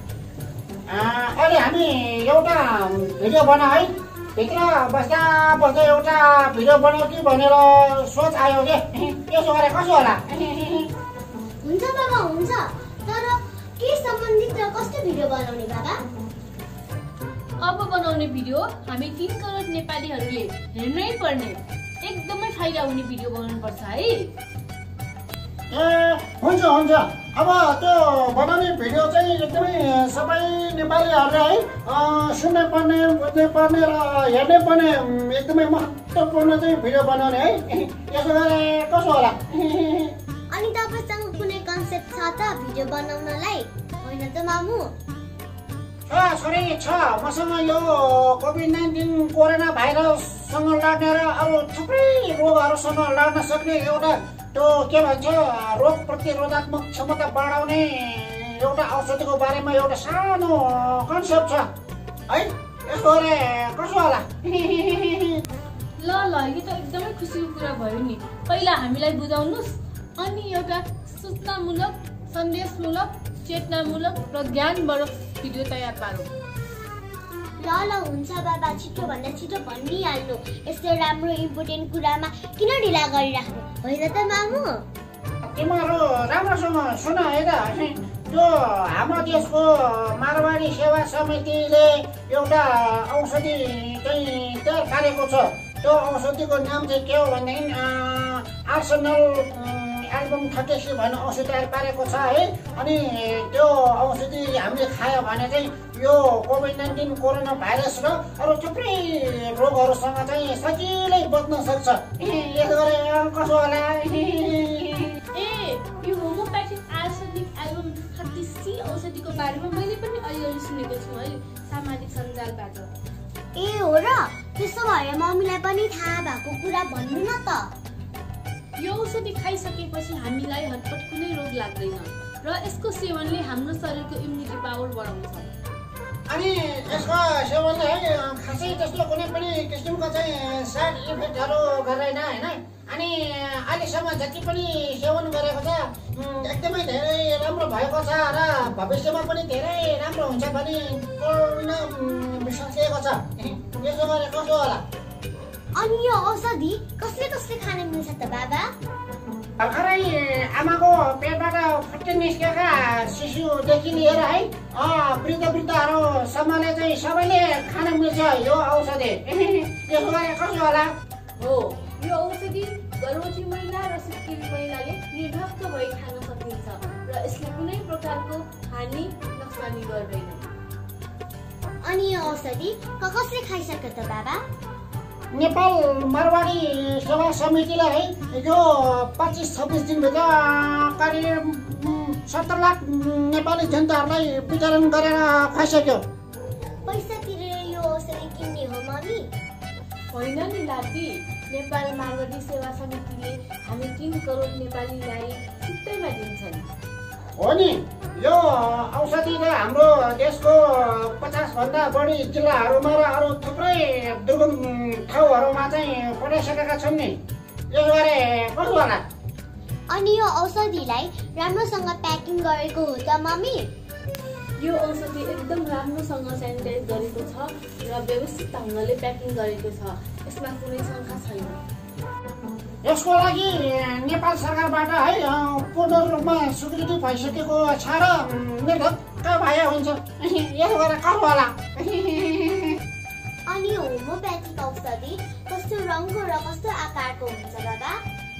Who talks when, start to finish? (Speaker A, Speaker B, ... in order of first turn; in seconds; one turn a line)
Speaker A: 0.9-10.9
Speaker B: 11.6-16.0
Speaker C: 17.6-24.3
Speaker A: 25.7-40.1
Speaker B: 40.5-44.9
Speaker A: 46.1-61.7
Speaker A: 62.3-65.4
Speaker C: 66.0-76.3
Speaker B: 77.6-84.9
Speaker A: 85.4-115.1
Speaker C: 115.3-122.9
Speaker B: 123.5-127.7
Speaker C: 128.8-135.5
Speaker A: 136.3-154.8
Speaker B: 155.8-158.7
Speaker A: 159.6-170.9
Speaker C: 171.4-180.5
Speaker B: 181.8-184.4
Speaker A: 185.3-196.1
Speaker B: 196.8-199.3
Speaker C: 200.1-206.7
Speaker A: 207.4-219.1
Speaker B: 219.9-223.7
Speaker C: 224.6-231.6
Speaker A: 232.8-242.8
Speaker B: 243.5-248.0